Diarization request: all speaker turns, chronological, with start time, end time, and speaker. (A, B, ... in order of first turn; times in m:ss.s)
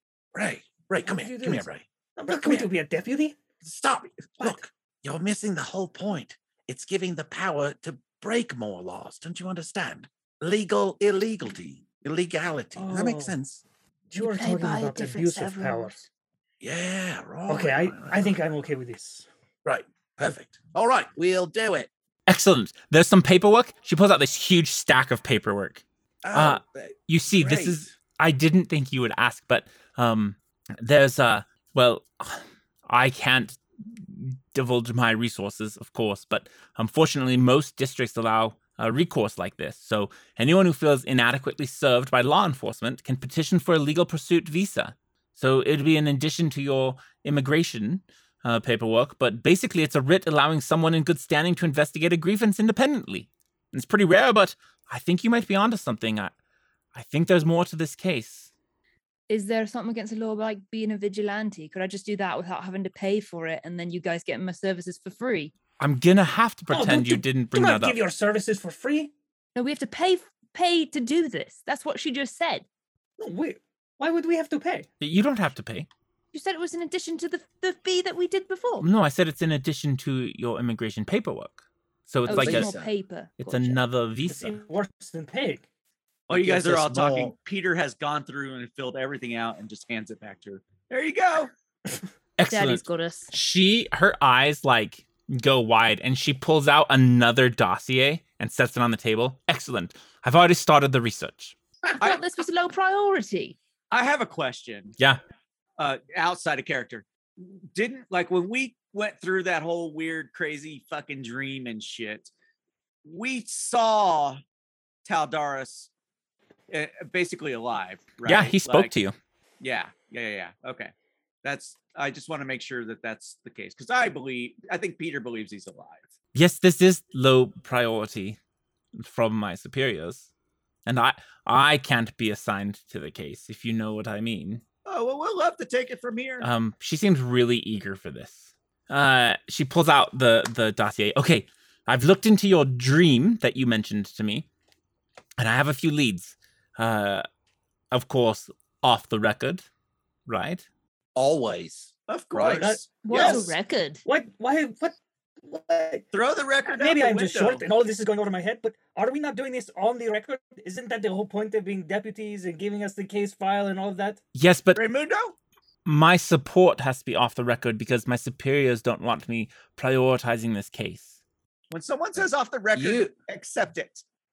0:00.3-0:02.7 A
0:01.0-0:03.4 B
0:03.6-0:13.6 A
0:12.8-0:13.4 B
0:14.1-0:16.0 B
0:14.2-0:16.0 C
0:16.6-0:18.4 A
0:17.5-0:19.3 B
0:19.6-0:21.9 A
0:22.3-0:56.3 D
0:26.2-0:27.9 A
0:56.9-0:58.5 D
0:59.3-1:05.5 C
1:05.8-1:08.0 D
1:06.7-1:09.1 B
1:09.5-1:12.6 C
1:13.2-1:14.9 B
1:15.0-1:15.9 D
1:16.3-1:18.9 C
1:18.8-1:22.7 D
1:22.2-1:23.8 C
1:22.3-1:22.9 A
1:23.4-1:24.6 D
1:24.3-1:25.6 B
1:26.3-1:31.5 E
1:26.3-1:27.3 A
1:32.4-1:41.5 D
1:32.5-1:33.3 C
1:42.0-1:43.6 C
1:43.9-1:44.9 E
1:45.8-1:52.3 E
1:53.0-1:54.4 E
1:55.0-1:55.9 E
1:56.7-1:58.9 E
1:58.2-1:59.1 D
1:59.6-2:06.1 E
2:06.3-2:08.4 D
2:08.9-2:10.3 D
2:10.8-2:14.6 D
2:14.8-2:16.5 E
2:16.4-2:24.5 D
2:25.4-2:27.2 D
2:27.9-2:29.6 D
2:30.3-2:30.6 D
2:31.1-2:32.6 A
2:32.1-2:33.5 E
2:32.4-2:33.5 B
2:33.0-2:34.0 C
2:34.0-2:36.0 B
2:36.1-2:37.6 E
2:36.7-2:44.2 B
2:44.3-2:44.8 D
2:44.7-2:45.4 E
2:45.8-2:51.2 D
2:51.7-2:54.0 E
2:52.2-2:53.1 A